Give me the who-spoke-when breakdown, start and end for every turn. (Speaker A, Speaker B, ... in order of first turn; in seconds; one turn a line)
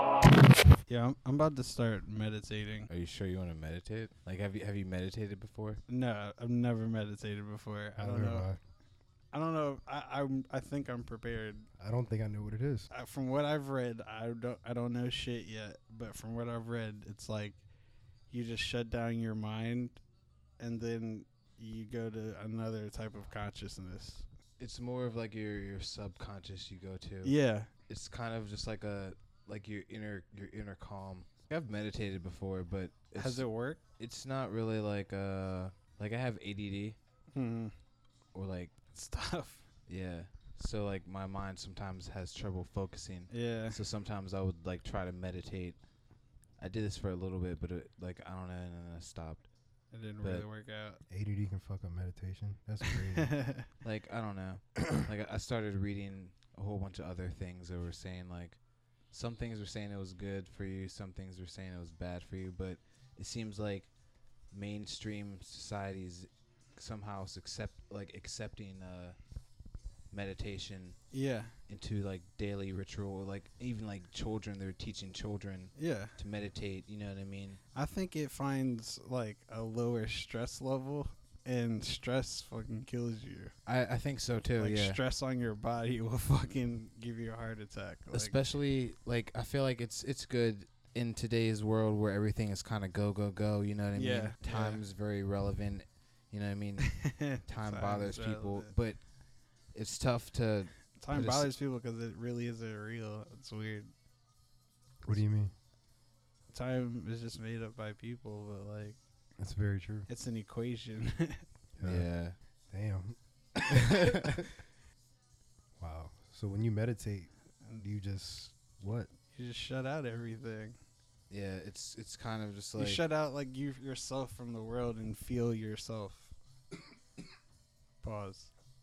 Speaker A: 0.9-2.9
Speaker B: 2.9-5.8
Speaker A: 5.9-8.5
Speaker C: 8.0-8.6
Speaker A: 9.3-11.7
Speaker C: 11.8-12.9
Speaker A: 12.9-17.6
Speaker A: 18.3-20.0
Speaker A: 20.6-24.3
Speaker B: 24.6-33.5
Speaker A: 27.2-27.7
Speaker A: 33.2-33.8
Speaker B: 34.0-37.0
Speaker A: 37.3-37.7
Speaker B: 38.3-38.8
Speaker A: 38.9-39.7
Speaker B: 39.9-45.8
Speaker A: 43.3-43.8
Speaker B: 46.6-49.5
Speaker A: 49.9-51.0
Speaker B: 50.2-50.5
Speaker C: 51.1-53.4
Speaker A: 53.2-53.7
Speaker B: 53.8-63.9
Speaker B: 64.5-69.2
Speaker B: 70.1-71.0
Speaker A: 71.1-71.5
Speaker B: 71.7-77.6
Speaker A: 75.8-76.2
Speaker A: 77.7-83.5
Speaker B: 83.7-85.0
Speaker A: 84.6-88.4
Speaker B: 88.1-101.5
Speaker A: 94.0-94.8
Speaker A: 97.0-98.7
Speaker A: 101.0-103.9
Speaker C: 105.0-105.5
Speaker A: 106.5-109.0
Speaker C: 109.4-110.1
Speaker A: 110.1-111.5
Speaker C: 111.8-112.1
Speaker B: 111.8-112.4
Speaker C: 112.7-114.5
Speaker C: 115.8-119.1
Speaker A: 119.3-120.8
Speaker B: 121.3-123.0
Speaker A: 122.8-126.3
Speaker A: 128.0-128.5